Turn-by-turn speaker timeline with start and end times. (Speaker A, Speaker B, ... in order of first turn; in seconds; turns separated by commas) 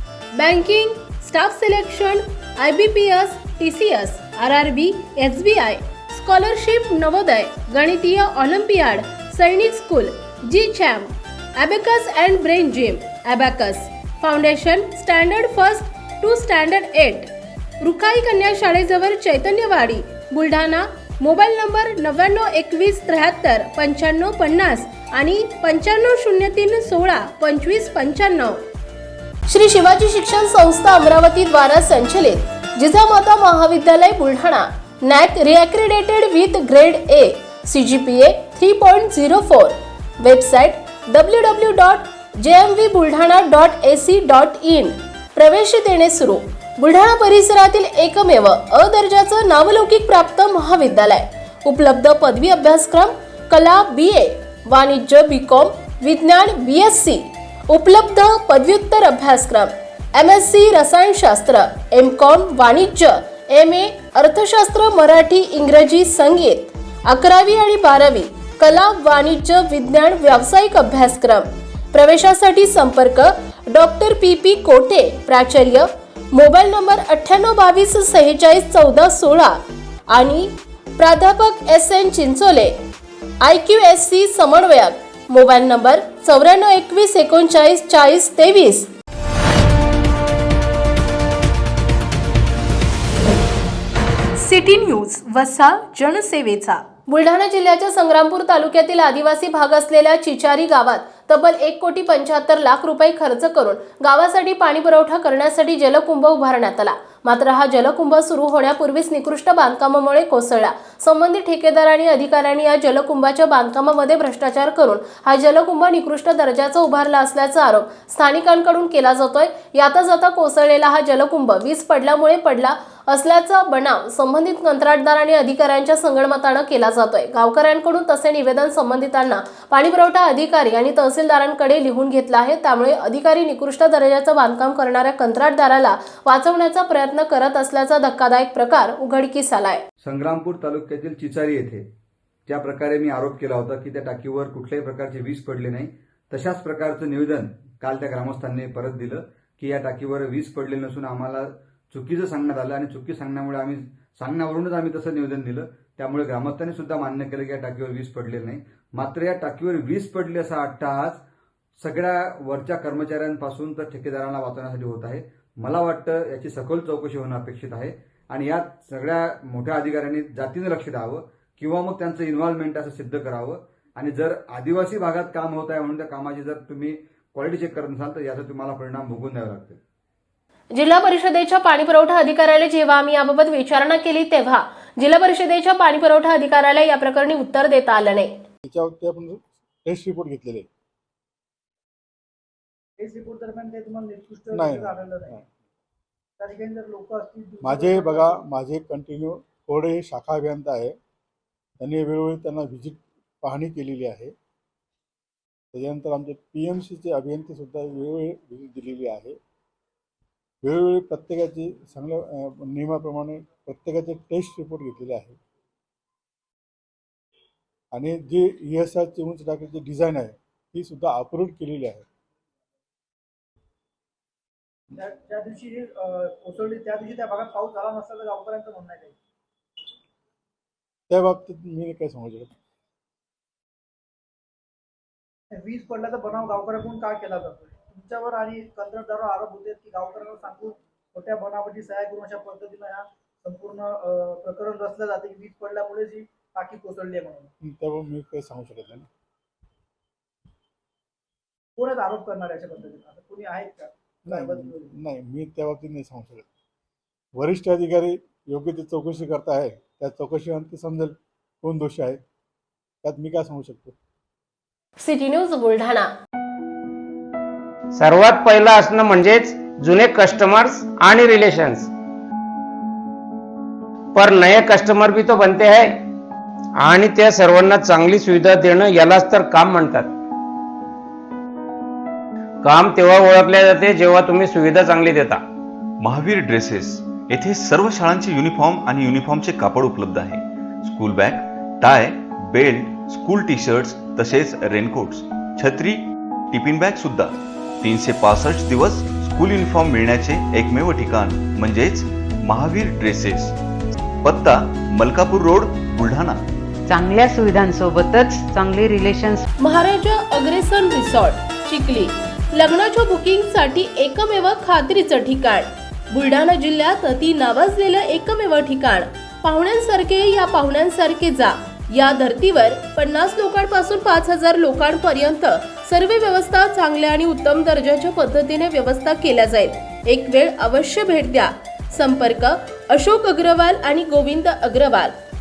Speaker A: 0.3-17.3, Speaker A: 17.8-28.6, Speaker A: 29.5-82.8, Speaker A: 83.4-88.9, Speaker A: 94.4-139.8, Speaker B: 140.0-141.8, Speaker B: 142.5-161.2, Speaker B: 161.8-179.8, Speaker A: 180.7-188.3, Speaker C: 188.7-190.7, Speaker D: 193.0-195.4, Speaker C: 194.5-195.4, Speaker D: 196.4-198.4, Speaker C: 197.6-201.0, Speaker C: 201.8-204.3, Speaker C: 205.7-209.4, Speaker C: 210.6-215.4, Speaker C: 217.9-222.1, Speaker D: 224.9-229.2, Speaker C: 231.1-232.5, Speaker D: 235.5-247.5, Speaker C: 247.6-249.1, Speaker D: 251.8-254.9, Speaker C: 254.3-256.5, Speaker C: 257.4-262.2, Speaker C: 263.0-264.0, Speaker A: 265.0-266.1, Speaker E: 267.9-271.9, Speaker E: 274.1-276.0, Speaker E: 276.8-280.2, Speaker E: 282.6-285.4, Speaker F: 286.0-303.6, Speaker F: 304.2-306.4, Speaker G: 306.9-309.5, Speaker A: 309.6-335.2